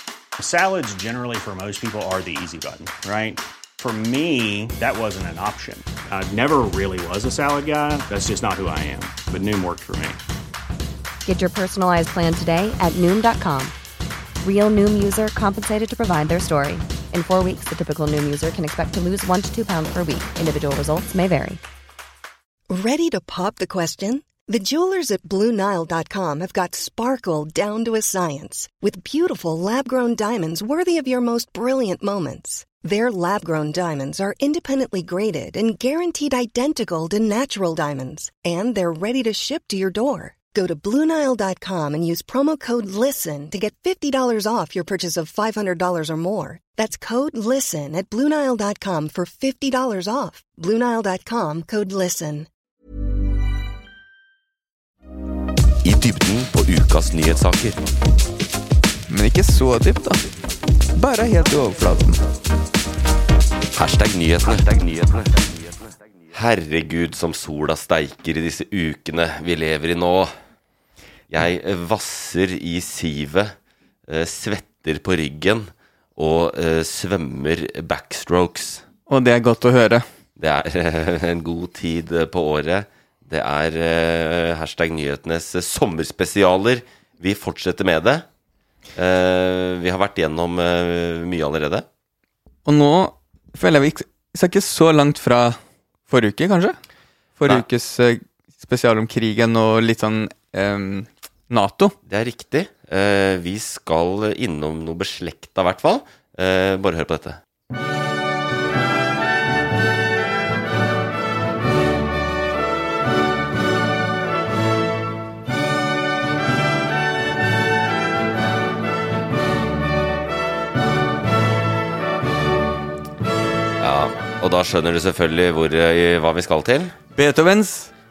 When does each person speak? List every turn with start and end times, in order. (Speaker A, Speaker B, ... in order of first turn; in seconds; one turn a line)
Speaker A: 0.4-10.2
Speaker B: 11.2-13.7
Speaker B: 14.4-21.6
Speaker C: 22.7-52.5
Speaker D: 55.8-57.8
Speaker E: 59.1-60.2
Speaker E: 61.0-62.2
Speaker D: 63.7-65.4
Speaker D: 66.3-70.3
Speaker D: 71.3-73.5
Speaker D: 74.1-78.8
Speaker E: 79.1-80.0
Speaker D: 80.4-88.2
Speaker D: 88.9-91.8
Speaker E: 92.7-96.8
Speaker E: 97.4-101.9
Speaker D: 102.1-107.4
Speaker D: 123.8-126.9
Speaker E: 127.2-127.9